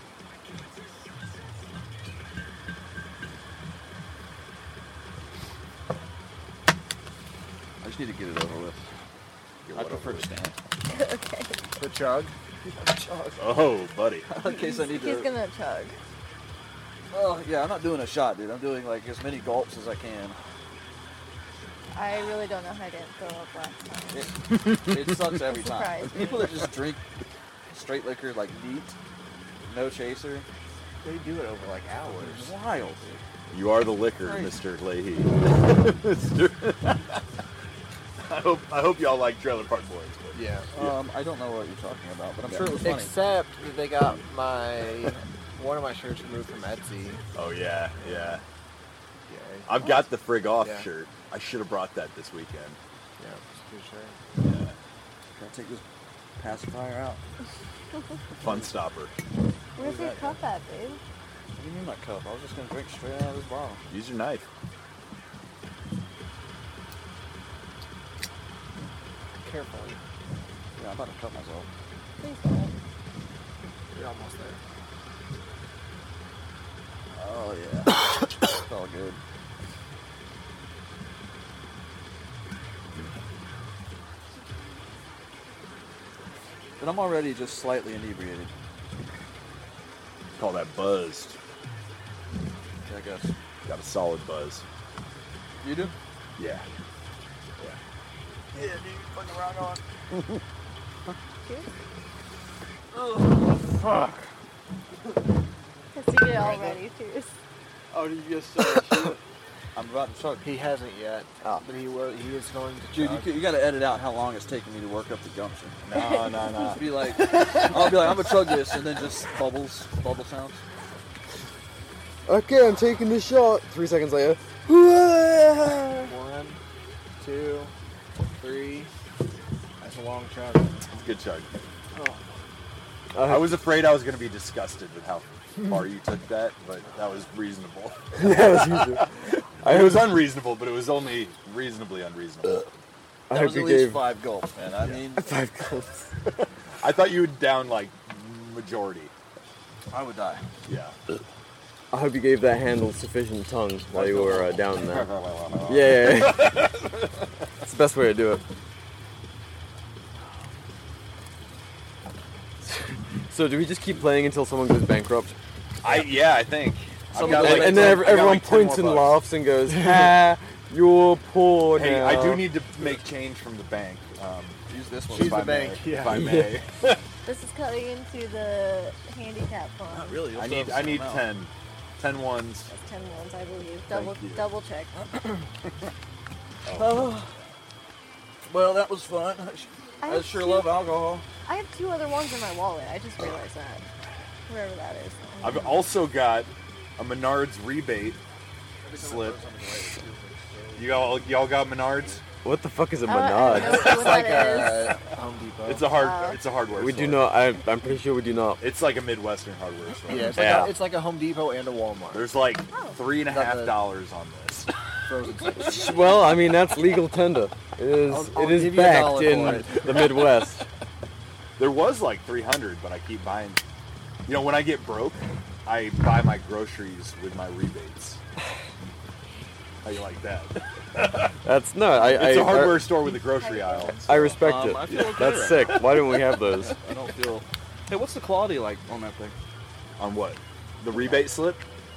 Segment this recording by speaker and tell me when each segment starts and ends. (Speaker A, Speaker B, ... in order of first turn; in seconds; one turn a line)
Speaker A: 7.8-8.9
Speaker B: 9.7-10.3
Speaker A: 9.7-10.6
Speaker C: 10.9-11.6
Speaker D: 11.8-12.3
Speaker A: 12.6-13.6
Speaker B: 13.4-14.3
Speaker A: 14.3-15.3
Speaker C: 14.4-16.0
Speaker A: 17.1-20.4
Speaker C: 21.9-24.3
Speaker A: 24.1-27.0
Speaker B: 24.5-25.1
Speaker C: 25.4-26.6
Speaker A: 27.7-29.0
Speaker A: 29.6-30.5
Speaker D: 31.0-32.5
Speaker A: 32.2-33.2
Speaker B: 33.5-37.2
Speaker A: 34.2-34.6
Speaker B: 38.2-40.9
Speaker D: 40.3-40.7
Speaker A: 40.7-43.1
Speaker D: 42.6-47.2
Speaker B: 47.4-48.4
Speaker D: 48.0-48.4
Speaker D: 49.3-50.1
Speaker B: 49.7-52.8
Speaker D: 50.6-50.9
Speaker D: 53.2-54.2
Speaker B: 54.4-54.8
Speaker A: 55.3-55.8
Speaker A: 56.4-57.2
Speaker B: 58.4-59.1
Speaker A: 59.8-60.4
Speaker C: 59.8-61.0
Speaker A: 61.6-63.8
Speaker B: 63.9-64.5
Speaker D: 69.4-70.0
Speaker A: 70.8-71.7
Speaker C: 72.2-72.7
Speaker D: 73.9-74.6
Speaker A: 77.1-79.2
Speaker A: 86.8-88.5
Speaker B: 90.4-91.4
Speaker A: 92.9-93.3
Speaker B: 93.7-94.6
Speaker A: 95.6-95.9
Speaker B: 96.4-96.7
Speaker E: 98.5-99.8
Speaker C: 101.5-101.7
Speaker A: 102.9-104.2
Speaker C: 105.9-107.3
Speaker D: 106.3-106.8
Speaker E: 107.9-109.2
Speaker A: 109.8-110.5
Speaker D: 110.4-113.4
Speaker A: 112.9-115.8
Speaker B: 115.8-116.8
Speaker C: 115.9-116.2
Speaker A: 116.5-120.6
Speaker E: 122.2-126.1
Speaker D: 126.0-126.6
Speaker D: 127.2-127.7
Speaker D: 128.4-128.9
Speaker D: 129.8-130.8
Speaker B: 130.9-131.5
Speaker D: 131.9-132.4
Speaker E: 133.1-133.6
Speaker B: 133.2-142.7
Speaker E: 138.2-139.1
Speaker E: 139.6-140.2
Speaker E: 143.3-144.0
Speaker A: 143.3-145.3
Speaker E: 145.2-146.1
Speaker B: 146.8-149.1
Speaker A: 149.9-150.5
Speaker B: 150.7-151.0
Speaker E: 151.9-155.1
Speaker A: 153.9-155.6
Speaker B: 154.9-156.9
Speaker E: 155.7-156.7
Speaker E: 157.6-158.4
Speaker E: 162.6-165.3
Speaker B: 165.8-169.2
Speaker A: 167.1-168.3
Speaker E: 167.2-172.6
Speaker D: 169.8-170.1
Speaker B: 171.7-174.6
Speaker A: 174.7-175.8
Speaker D: 175.1-176.2
Speaker B: 175.2-176.7
Speaker E: 176.1-177.0
Speaker C: 177.2-180.3
Speaker A: 179.9-181.3
Speaker B: 180.3-182.7
Speaker C: 182.7-184.9
Speaker B: 183.9-184.4
Speaker A: 184.9-185.5
Speaker B: 186.7-187.1
Speaker A: 186.7-187.4
Speaker A: 188.4-191.2
Speaker C: 190.0-190.8
Speaker C: 191.4-193.8
Speaker C: 194.5-195.8
Speaker B: 195.4-198.2
Speaker A: 198.8-200.8
Speaker B: 199.0-199.4
Speaker B: 200.8-202.2
Speaker E: 202.4-204.0
Speaker C: 203.1-205.0
Speaker D: 203.5-205.9
Speaker B: 203.6-204.4
Speaker B: 205.7-207.3
Speaker C: 205.9-206.4
Speaker E: 206.8-208.6
Speaker B: 208.6-210.7
Speaker D: 210.1-212.3
Speaker E: 210.3-210.7
Speaker B: 212.1-214.7
Speaker C: 212.7-213.0
Speaker D: 213.2-213.9
Speaker D: 215.1-216.0
Speaker E: 215.6-220.7
Speaker D: 218.1-220.2
Speaker B: 221.6-223.6
Speaker B: 224.2-228.2
Speaker B: 229.8-231.4
Speaker E: 231.4-233.1
Speaker B: 231.9-235.1
Speaker C: 233.2-234.1
Speaker E: 234.1-236.8
Speaker A: 234.4-239.3
Speaker B: 240.0-241.6